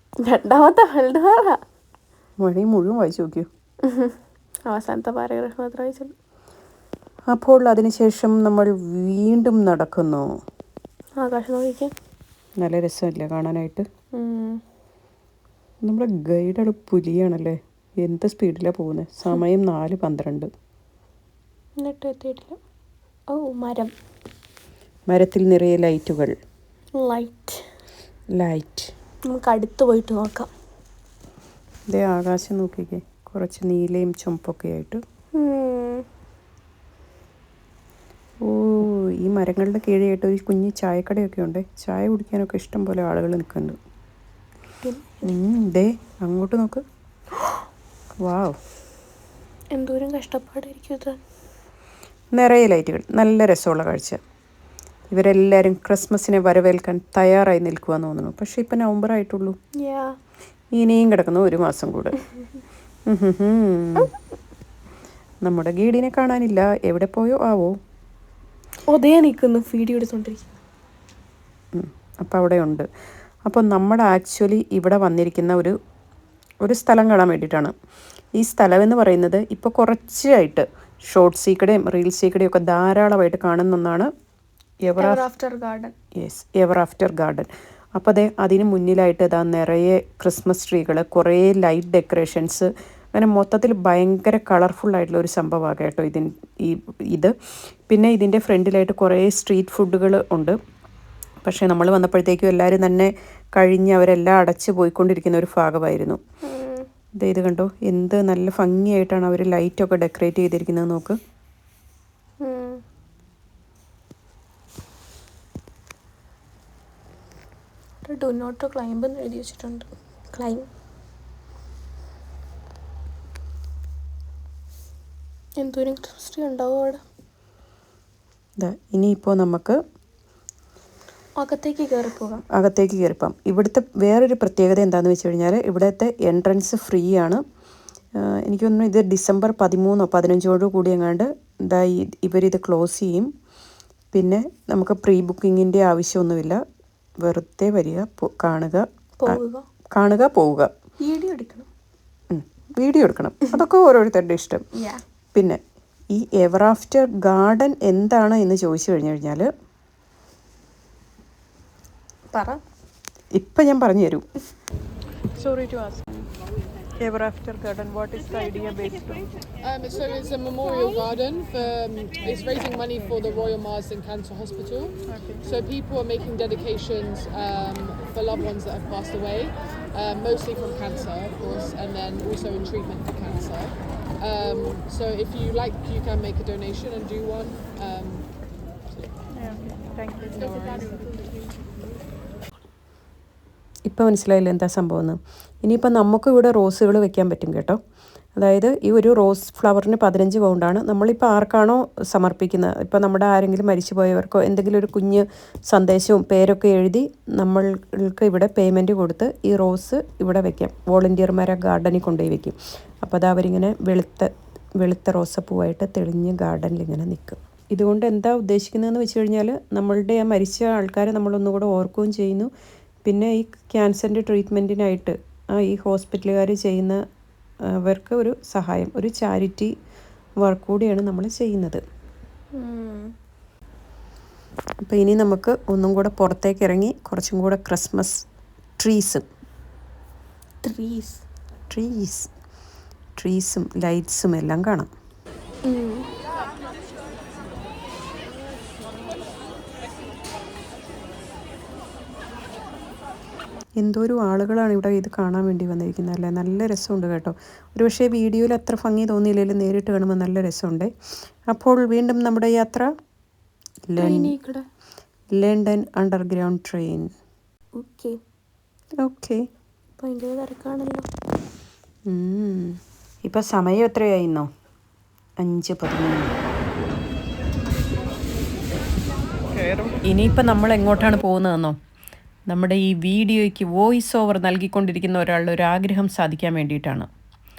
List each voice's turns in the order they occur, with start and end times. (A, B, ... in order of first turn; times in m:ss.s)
0:00.2-0:01.6 A
0:02.4-0:03.5 B
0:03.8-0:04.1 A
0:04.7-0:06.1 A
0:07.3-0:10.2 B
0:11.2-0:11.9 A
0:12.6-0:13.8 B
0:14.1-0:14.6 A
0:15.8-0:20.5 B
0:21.8-0:22.6 A
0:23.3-0:23.9 A
0:25.1-0:26.3 B
0:27.0-0:27.6 A
0:28.3-0:28.9 B
0:29.3-0:30.5 A
0:31.9-0:35.0 B
0:35.3-0:36.0 A
0:38.4-0:43.8 B
0:44.8-0:45.3 A
0:45.2-0:46.8 B
0:48.2-0:48.6 B
0:49.7-0:51.2 A
0:52.3-0:54.2 B
0:55.1-0:59.6 B
0:59.8-1:00.1 A
1:00.7-1:02.2 B
1:03.1-1:04.1 B
1:05.4-1:07.7 B
1:08.9-1:10.5 A
1:11.7-1:12.8 B
1:13.4-1:15.7 B
1:16.6-1:17.7 B
1:18.4-1:24.1 B
1:24.9-1:25.2 B
1:25.0-1:25.9 A
1:26.2-1:37.3 B
1:37.9-1:40.6 B
1:41.4-1:46.2 B
1:46.4-1:46.8 A
1:47.2-1:51.2 B
1:52.4-1:52.8 A
1:58.0-2:00.7 A
2:05.6-2:07.0 A
2:08.6-2:09.8 B
2:11.4-2:12.4 A
2:12.5-2:17.4 B
2:18.2-2:23.3 B
2:24.1-2:26.6 B
2:27.2-2:29.4 B
2:29.2-2:29.6 A
2:30.0-2:30.7 B
2:31.0-2:31.7 A
2:32.3-2:34.6 B
2:34.7-2:35.0 A
2:36.1-2:39.5 B
2:42.3-2:42.6 A
2:43.3-2:44.2 B
2:45.4-2:46.2 B
2:47.0-2:49.3 B
2:49.6-3:08.3 C
3:10.3-3:11.1 C
3:13.9-3:17.8 B
3:18.4-3:34.3 B
3:34.8-3:42.5 B
3:43.0-3:47.0 B
3:47.8-3:49.7 B
3:50.4-3:51.8 B
3:52.6-3:53.1 A
3:54.8-3:58.2 B
3:58.8-3:59.2 B
4:00.6-4:01.2 A
4:01.7-4:02.3 B
4:03.2-4:04.9 B
4:05.7-4:06.1 A
4:13.8-4:20.9 B
4:21.5-4:22.9 B
4:23.9-4:24.3 B
4:24.0-4:24.6 A
4:25.4-4:27.1 B
4:27.8-4:28.2 A
4:29.0-4:29.4 B
4:30.0-4:31.1 A
4:32.1-4:34.5 B
4:35.4-4:36.4 B
4:39.5-4:41.8 B
4:42.5-4:47.1 B